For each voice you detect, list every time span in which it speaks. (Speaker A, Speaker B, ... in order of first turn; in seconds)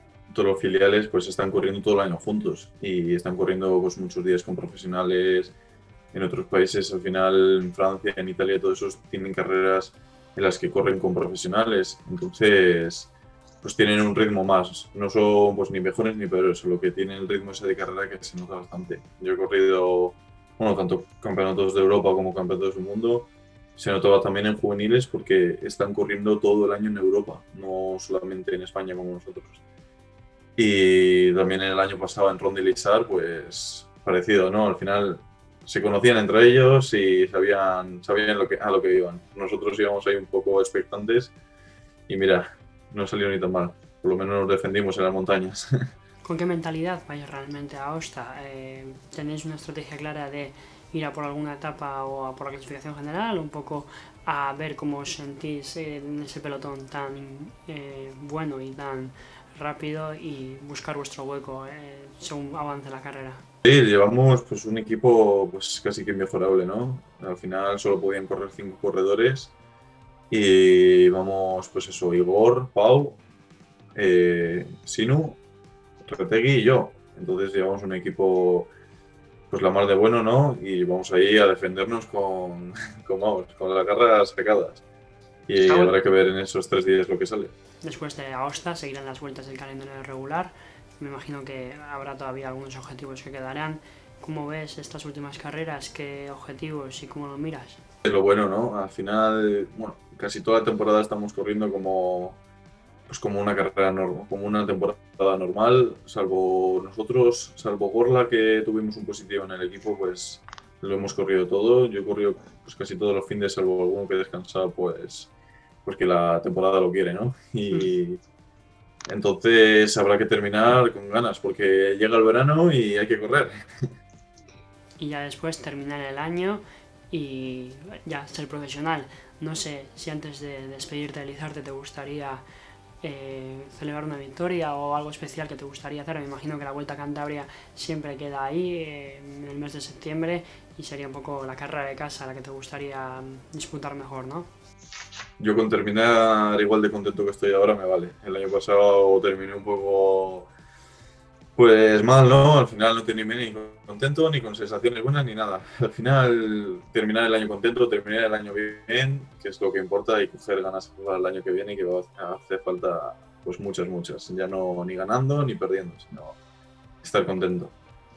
Speaker A: 0.3-5.5, 6.1-13.1, 13.6-29.6, 30.6-41.3, 42.1-45.7, 63.6-69.5, 70.3-73.2, 73.9-75.4, 76.0-78.7, 79.5-84.8, 85.5-87.5, 98.0-102.4, 103.1-115.3, 115.8-118.2, 119.1-123.6, 145.4-150.5, 151.6-166.4, 167.0-167.7
Speaker B: 46.2-63.4, 85.6-85.9, 87.8-97.8, 125.0-132.4, 133.0-144.5